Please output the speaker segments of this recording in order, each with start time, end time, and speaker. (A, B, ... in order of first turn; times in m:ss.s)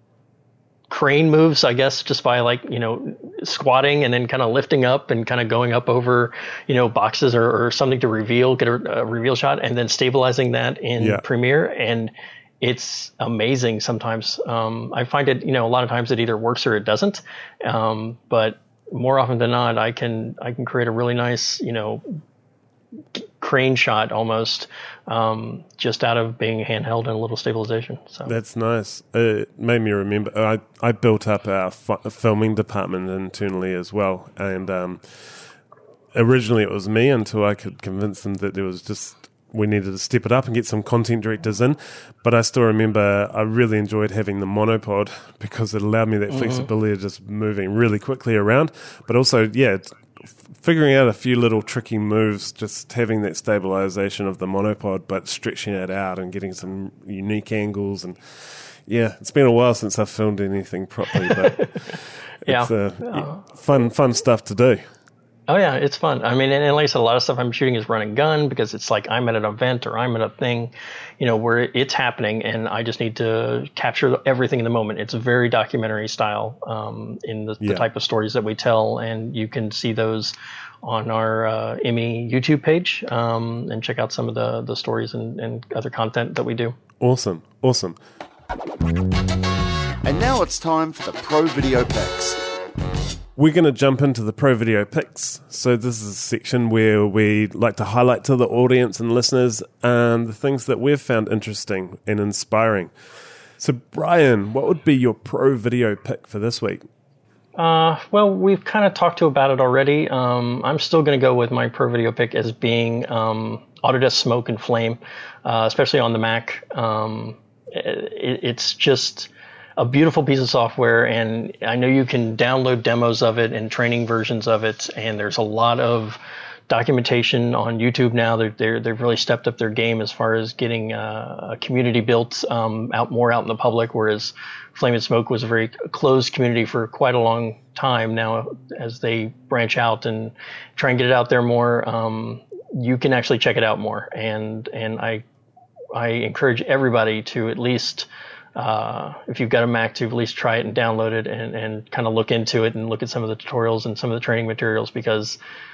0:00.9-0:22.2 A
0:11.0-0:11.2 B
0:23.1-0:28.3 A
0:28.2-0:35.4 B
0:36.1-1:04.8 B
0:46.3-0:46.7 A
1:01.2-1:01.9 A
1:02.4-1:03.5 A
1:05.5-1:26.8 A
1:17.6-1:17.8 B
1:27.0-1:28.0 B
1:30.0-1:32.4 C
1:33.4-1:42.9 B
1:43.6-1:46.8 B
1:47.6-2:25.2 A
2:25.9-2:35.4 A